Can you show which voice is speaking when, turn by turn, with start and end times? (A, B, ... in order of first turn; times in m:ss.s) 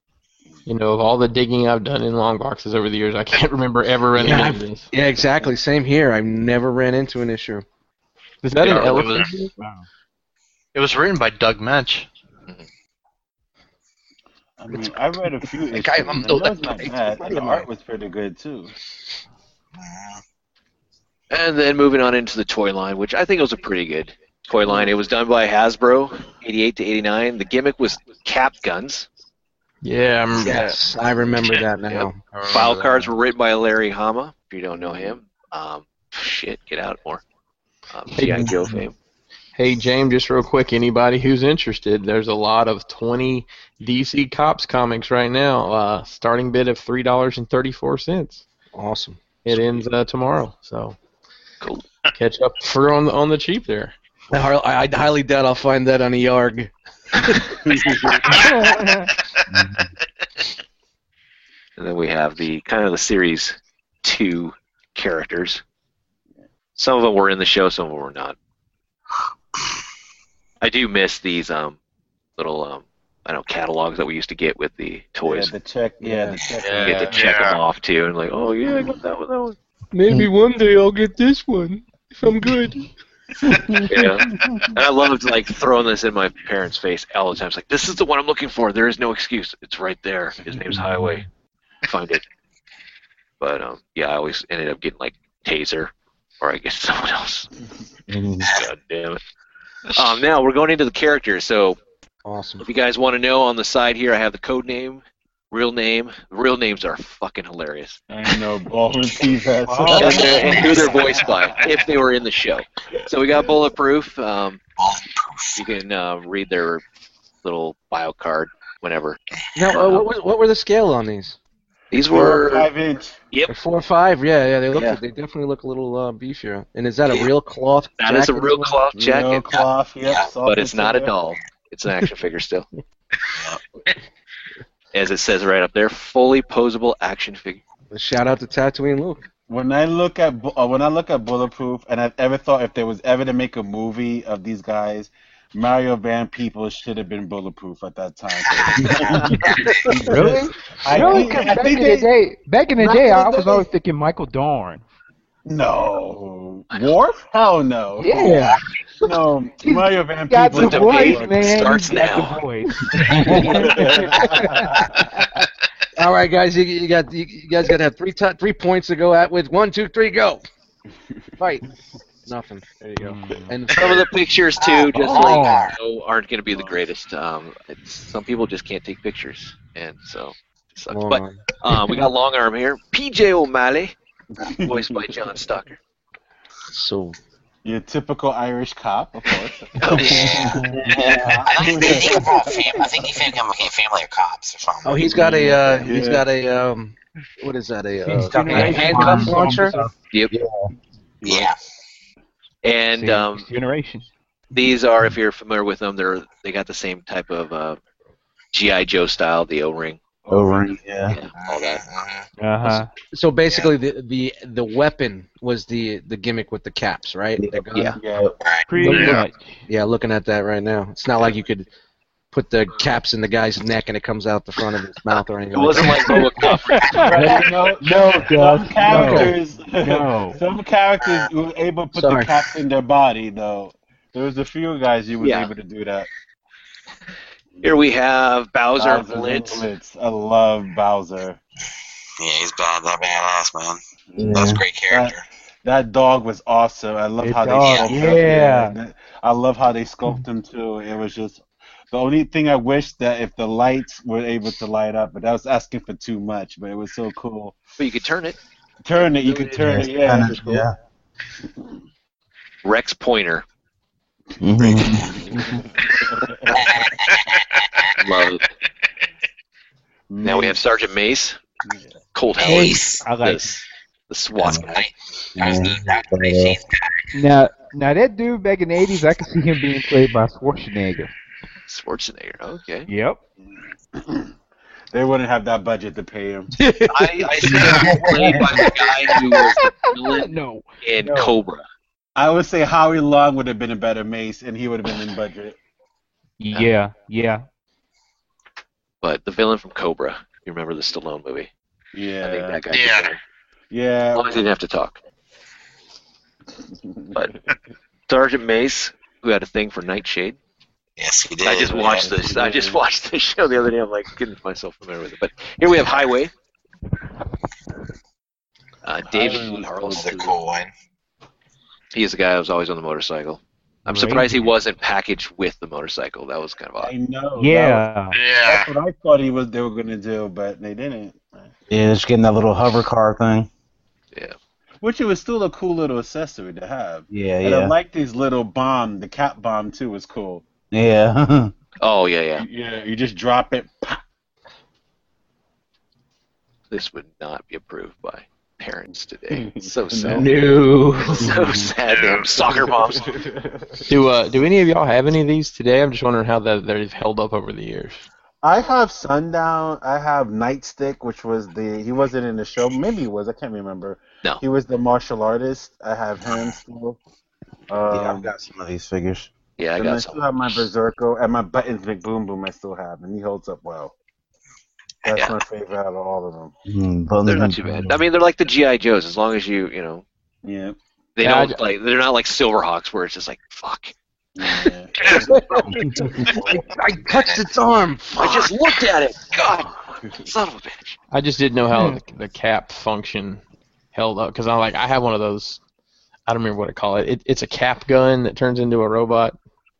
0:00.6-0:04.9 A
0:04.2-0:07.6 B
0:08.4-0:09.5 A
0:08.6-0:09.4 C
0:10.7-0:12.1 C
0:14.6-0:18.7 D
0:15.7-0:17.7 B
0:19.8-0:20.2 E
0:21.3-0:29.1 F
0:29.8-0:30.7 A
0:30.4-0:32.2 B
0:31.9-0:37.2 F
0:32.2-0:33.1 C
0:34.8-0:35.1 D
0:37.9-0:38.9 F
0:38.2-0:38.5 A
0:38.4-0:38.8 G
0:39.6-0:48.4 A
0:48.7-0:49.2 B
0:49.4-0:51.0 A
0:49.5-0:49.8 F
0:51.6-0:51.8 F
0:52.2-0:53.9 A
0:54.3-0:57.4 B
0:57.6-0:58.4 D
0:58.3-0:58.5 H
0:58.3-0:59.1 I
0:59.5-0:59.9 G
1:01.8-1:05.6 F
1:06.8-1:08.4 F
1:10.6-1:11.8 F
1:12.4-1:15.5 F
1:15.2-1:17.2 D
1:16.0-1:16.4 B
1:16.6-1:17.1 E
1:16.8-1:19.6 F
1:17.1-1:17.6 H
1:19.9-1:22.9 B
1:23.9-1:31.2 F
1:24.0-1:24.7 D
1:30.7-1:31.2 G
1:31.8-1:32.2 F
1:33.4-1:37.5 F
1:38.1-1:38.5 G
1:38.5-1:39.2 F
1:39.9-1:41.8 F
1:42.2-1:42.6 B
1:42.6-1:48.0 F
1:48.1-1:51.7 D
1:49.6-1:50.6 I
1:49.8-1:51.0 B
1:49.9-1:54.6 F
1:51.2-1:51.5 E
1:54.8-1:55.7 E
1:55.6-1:56.8 F
1:57.4-1:59.2 F
1:59.5-2:01.4 B
1:59.7-2:00.0 F
2:01.9-2:02.7 F
2:02.0-2:03.2 D
2:03.5-2:08.7 B
2:08.0-2:09.6 F
2:09.0-2:11.1 D
2:10.0-2:10.3 E
2:10.4-2:12.7 F
2:14.9-2:17.6 F
2:17.9-2:19.2 B
2:19.5-2:32.1 D
2:28.6-2:29.9 E
2:30.1-2:34.8 I
2:32.8-2:33.7 D
2:35.4-2:41.9 D
2:38.0-2:44.8 I
2:40.5-2:42.4 F
2:43.0-2:45.1 D
2:43.1-2:43.4 G
2:43.2-2:43.8 B
2:46.0-2:50.4 B
2:51.4-2:51.6 B
2:52.2-2:54.1 B
2:53.0-2:53.5 I
2:53.7-3:03.9 F
2:54.6-2:55.7 E
2:55.0-2:55.5 B
2:56.5-2:56.8 D
3:00.9-3:01.4 B
3:04.4-3:05.1 D
3:04.6-3:05.8 F
3:06.7-3:07.2 B
3:07.6-3:12.9 D
3:09.8-3:10.5 F
3:09.9-3:10.6 E
3:10.0-3:10.2 B
3:10.6-3:11.4 G
3:11.3-3:15.3 E
3:14.8-3:19.8 B
3:15.1-3:16.2 D
3:18.0-3:19.9 I
3:18.2-3:20.7 G
3:21.2-3:21.5 D
3:21.2-3:21.6 E
3:22.6-3:23.5 F
3:22.9-3:24.1 I
3:24.5-3:27.8 F
3:28.5-3:30.0 F
3:30.2-3:30.8 D
3:30.3-3:31.2 G
3:31.1-3:31.8 F
3:31.4-3:32.2 E
3:32.4-3:32.9 I
3:33.1-3:38.0 B
3:38.0-3:38.3 D
3:38.4-3:38.7 E
3:38.7-3:39.6 I
3:38.8-3:39.2 H
3:38.8-3:41.7 B
3:42.3-3:46.6 B
3:45.5-3:47.6 F
3:45.8-3:49.4 I
3:47.0-3:56.1 D
3:48.8-3:49.3 B
3:51.9-3:52.3 B
3:55.2-3:55.5 F
3:57.6-3:59.7 F
3:58.8-4:01.4 D
4:02.2-4:05.2 E
4:04.1-4:04.4 D
4:04.2-4:04.6 G
4:04.9-4:17.6 D
4:07.2-4:08.7 I
4:07.6-4:08.0 E
4:17.8-4:18.4 F
4:18.8-4:20.6 D
4:19.0-4:19.9 F
4:19.6-4:20.7 G
4:22.6-4:23.4 F
4:24.4-4:25.5 G
4:25.0-4:26.5 D
4:26.5-4:27.9 E
4:26.7-4:27.2 H
4:28.0-4:28.5 F
4:30.1-4:30.6 D
4:30.2-4:31.4 F
4:31.6-4:32.0 D
4:32.1-4:34.8 F
4:32.4-4:33.0 E
4:32.4-4:33.6 I
4:34.4-4:34.6 G
4:34.6-4:37.0 E
4:35.3-4:36.6 G
4:37.1-4:41.1 I
4:41.7-4:42.9 F
4:42.9-4:43.2 I
4:44.0-4:44.3 D
4:44.9-4:46.5 D
4:46.6-4:47.8 B
4:46.9-4:50.3 F
4:47.4-4:48.6 G
4:47.5-4:47.8 D
4:47.5-4:47.9 H
4:47.9-4:51.4 I
4:50.8-4:51.6 F
4:52.2-4:55.6 D
4:56.4-4:57.4 I
4:59.0-5:01.5 F
5:01.9-5:02.6 D
5:02.2-5:03.2 F
5:02.7-5:03.1 H
5:03.7-5:04.5 D
5:04.1-5:05.0 F
5:06.8-5:07.5 D
5:08.1-5:10.4 F
5:11.0-5:12.1 E
5:11.4-5:16.3 F
5:11.8-5:12.8 D
5:18.8-5:20.4 F
5:19.1-5:19.8 D
5:19.8-5:20.7 E
5:21.9-5:26.9 F
5:23.9-5:24.5 I
5:26.8-5:27.9 D
5:27.3-5:28.2 I
5:28.1-5:28.7 H
5:28.4-5:31.5 D
5:31.7-5:33.5 G
5:34.8-5:40.4 D
5:37.1-5:37.7 G
5:40.7-5:41.5 G
5:41.8-5:42.4 F
5:42.4-5:44.0 D
5:46.7-5:50.3 F
5:49.4-5:50.4 D
5:51.1-5:53.2 F
5:51.2-5:51.7 G
5:51.2-5:51.5 D
5:51.8-5:52.4 H
5:52.4-5:53.8 D
5:53.9-5:58.0 A
5:58.4-6:07.0 D
6:07.7-6:08.3 D
6:07.9-6:09.3 G
6:09.6-6:10.7 F
6:09.8-6:13.9 D
6:15.0-6:16.5 D
6:16.6-6:18.0 G
6:17.2-6:20.0 F
6:20.4-6:20.8 D
6:21.2-6:23.9 F
6:21.2-6:21.6 A
6:24.4-6:25.4 D
6:25.0-6:25.3 H
6:25.1-6:25.5 F
6:25.2-6:25.5 B
6:25.6-6:26.2 G
6:26.0-6:26.6 D
6:26.5-6:28.5 B
6:27.1-6:27.4 E
6:28.2-6:31.0 F
6:29.8-6:30.3 D
6:31.1-6:33.4 A
6:31.7-6:32.0 I
6:33.9-6:35.6 A
6:36.2-6:39.4 A